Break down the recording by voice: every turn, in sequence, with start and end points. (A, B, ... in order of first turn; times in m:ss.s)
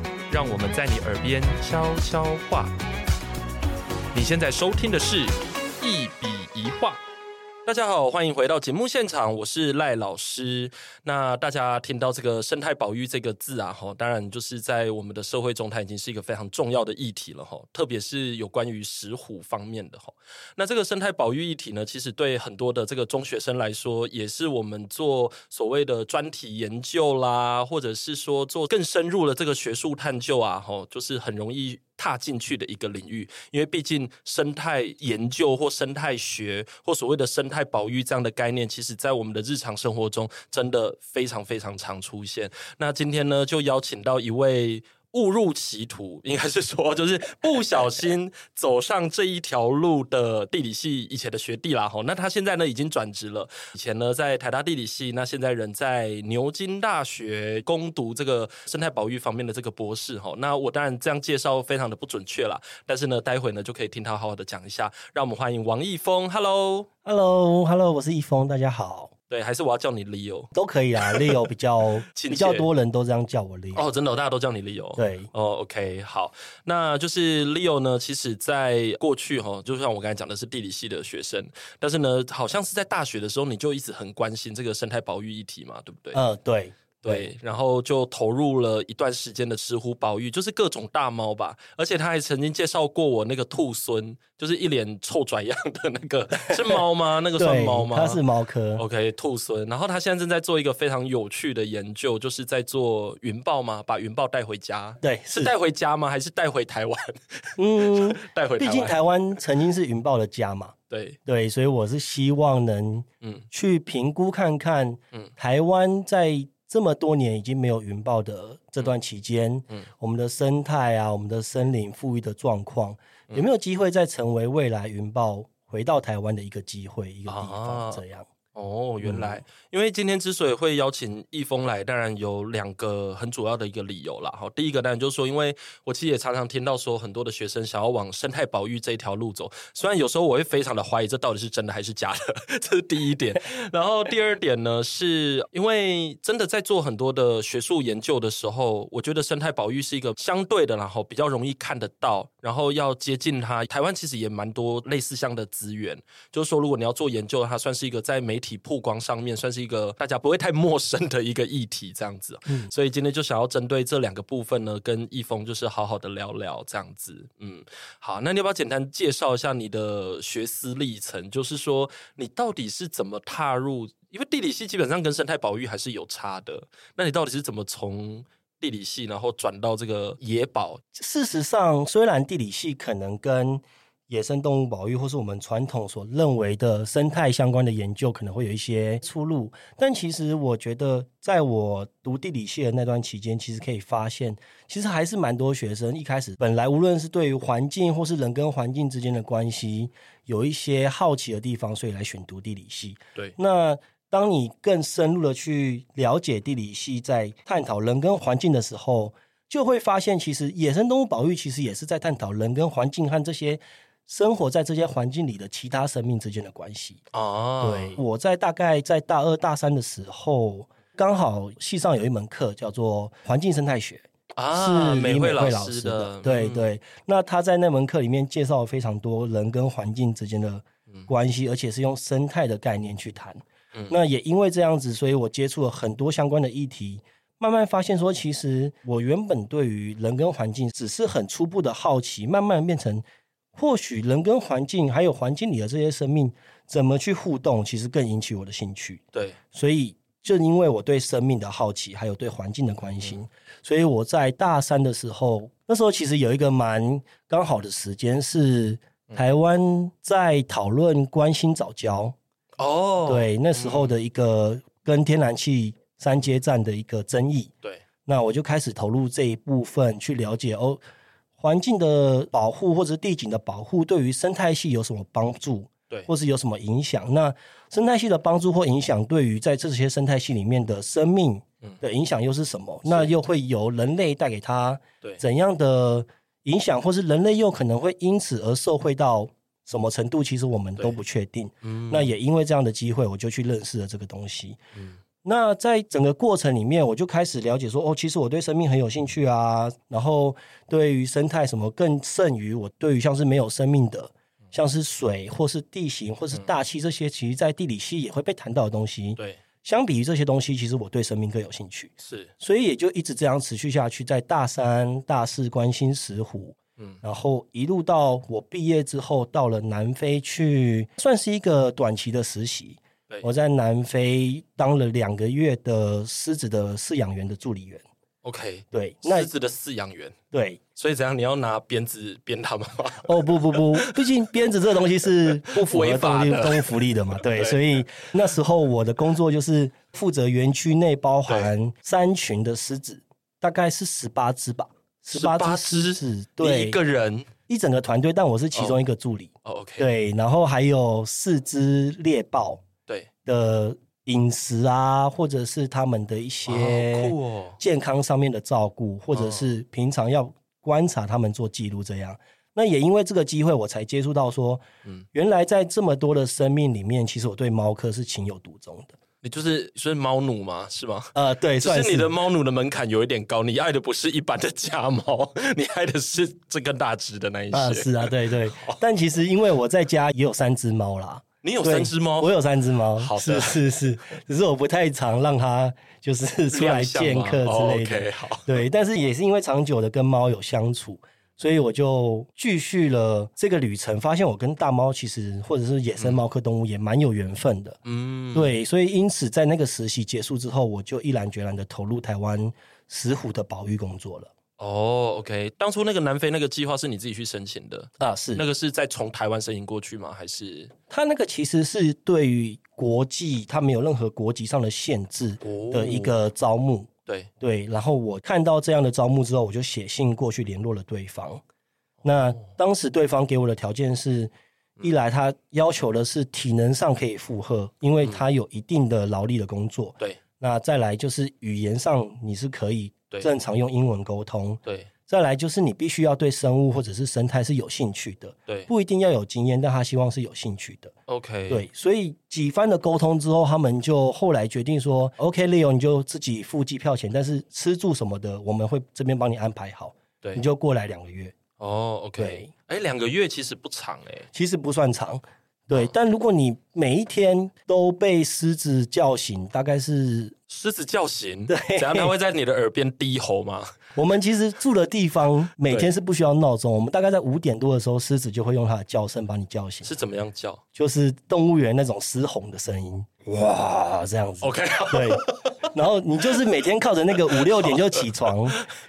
0:00.3-0:02.7 A
0:04.1-0:07.0 A
0:07.6-1:06.9 A
1:07.0-1:09.1 B
1:09.3-1:11.2 A
1:10.5-1:13.9 B
1:12.1-1:12.7 A
1:13.7-1:26.2 A
1:15.0-1:15.3 B
1:26.1-1:27.3 B
1:27.0-1:38.2 A
1:36.5-1:36.8 B
1:37.4-1:38.8 B
1:38.8-1:49.0 A
1:45.0-1:45.5 B
1:47.6-1:50.7 B
1:50.9-1:51.2 A
1:51.2-2:08.3 B
2:07.3-2:08.0 A
2:08.5-3:00.8 A
2:09.0-2:09.4 B
3:00.9-3:37.0 B
3:37.1-3:38.0 A
3:37.6-4:03.0 B
3:44.3-3:46.7 A
4:03.5-4:22.2 B
4:22.6-4:24.0 A
4:23.0-4:27.5 B
4:28.0-4:30.8 B
4:31.4-4:54.6 B
4:51.6-4:52.1 A
4:55.2-5:27.8 B
5:12.0-5:12.3 A
5:28.2-5:30.2 A
5:28.7-5:29.3 B
5:30.3-5:30.6 B
5:30.8-5:34.0 A
5:33.0-5:46.8 B
5:35.3-5:37.6 A
5:45.1-5:47.3 A
5:47.5-5:52.6 B
5:48.5-5:48.8 A
5:49.4-5:49.9 A
5:53.2-6:09.0 B
5:56.4-5:57.6 A
5:59.1-5:59.5 A
6:09.2-6:18.8 A
6:11.1-6:12.1 B
6:17.5-6:37.8 B
6:21.4-6:22.4 A
6:23.0-6:23.6 A
6:26.5-6:28.6 A
6:37.8-6:38.6 A
6:38.3-6:44.3 B
6:44.6-6:50.7 A
6:48.0-6:48.4 B
6:50.9-6:56.9 B
6:55.4-6:56.2 A
6:57.4-7:01.4 B
7:02.0-7:20.9 B
7:21.1-7:21.6 A
7:21.5-7:31.4 B
7:31.6-7:34.3 A
7:32.2-7:32.5 B
7:34.3-7:40.3 B
7:40.5-7:43.7 A
7:41.5-7:42.1 B
7:43.9-7:49.9 B
7:49.8-7:50.6 A
7:50.7-7:58.6 B
7:54.4-7:55.7 A
7:57.4-7:58.3 A